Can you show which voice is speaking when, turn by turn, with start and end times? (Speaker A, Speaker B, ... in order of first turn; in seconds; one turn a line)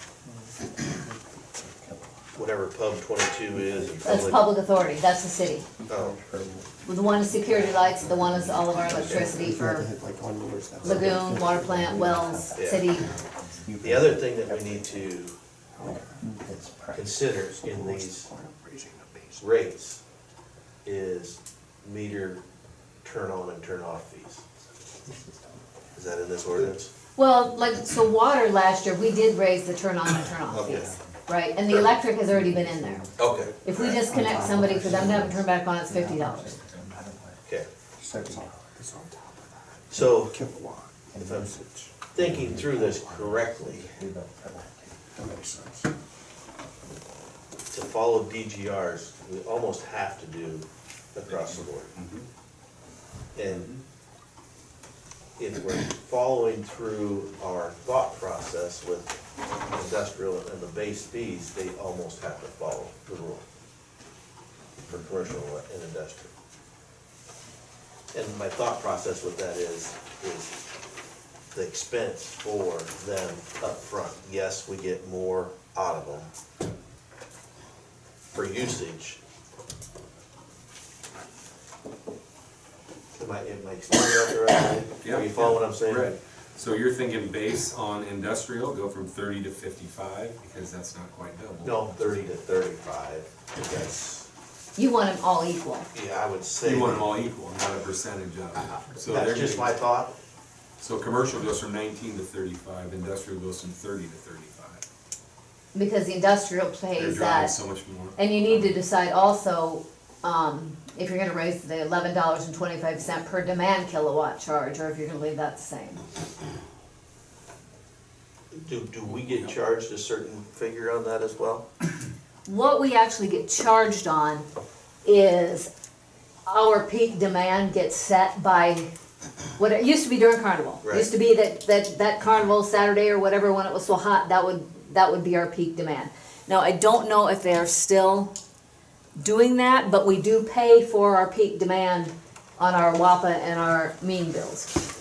Speaker A: 0.2-2.2
Speaker B: 2.3-4.5
Speaker A: 3.5-4.5
Speaker C: 4.0-5.7
Speaker A: 5.8-6.7
Speaker B: 5.9-6.2
Speaker C: 6.8-9.9
Speaker D: 7.5-9.1
Speaker A: 8.0-12.8
Speaker B: 8.9-9.3
Speaker C: 10.8-13.0
Speaker B: 12.6-12.9
Speaker D: 12.9-13.7
Speaker A: 13.5-15.2
Speaker B: 13.8-15.3
Speaker A: 15.8-19.4
Speaker B: 16.9-18.3
Speaker B: 19.4-20.0
Speaker B: 20.8-22.4
Speaker B: 23.0-24.4
Speaker A: 25.0-25.6
Speaker B: 25.9-26.9
Speaker C: 27.1-33.1
Speaker B: 30.5-30.9
Speaker A: 32.3-33.1
Speaker B: 33.2-34.1
Speaker C: 33.6-36.6
Speaker A: 34.0-37.4
Speaker D: 36.6-36.9
Speaker A: 38.0-45.9
Speaker B: 39.9-40.4
Speaker B: 41.1-41.5
Speaker B: 42.1-43.9
Speaker B: 47.7-51.9
Speaker D: 51.2-52.2
Speaker B: 53.4-53.7
Speaker D: 53.4-53.8
Speaker B: 55.4-59.2
Speaker B: 59.7-63.4
Speaker B: 64.9-66.3
Speaker B: 68.1-70.6
Speaker B: 71.5-76.3
Speaker B: 78.3-79.2
Speaker B: 83.2-86.2
Speaker D: 85.0-91.8
Speaker B: 91.6-94.3
Speaker C: 94.8-95.9
Speaker B: 95.9-97.1
Speaker D: 96.6-99.7
Speaker B: 99.0-100.1
Speaker D: 100.8-104.8
Speaker C: 105.7-107.5
Speaker D: 106.9-108.8
Speaker C: 108.2-116.0
Speaker B: 118.5-121.7
Speaker D: 119.0-119.5
Speaker C: 122.4-124.5
Speaker C: 125.0-125.7
Speaker C: 126.5-128.9
Speaker C: 129.6-138.3
Speaker B: 130.8-131.1
Speaker C: 139.2-144.7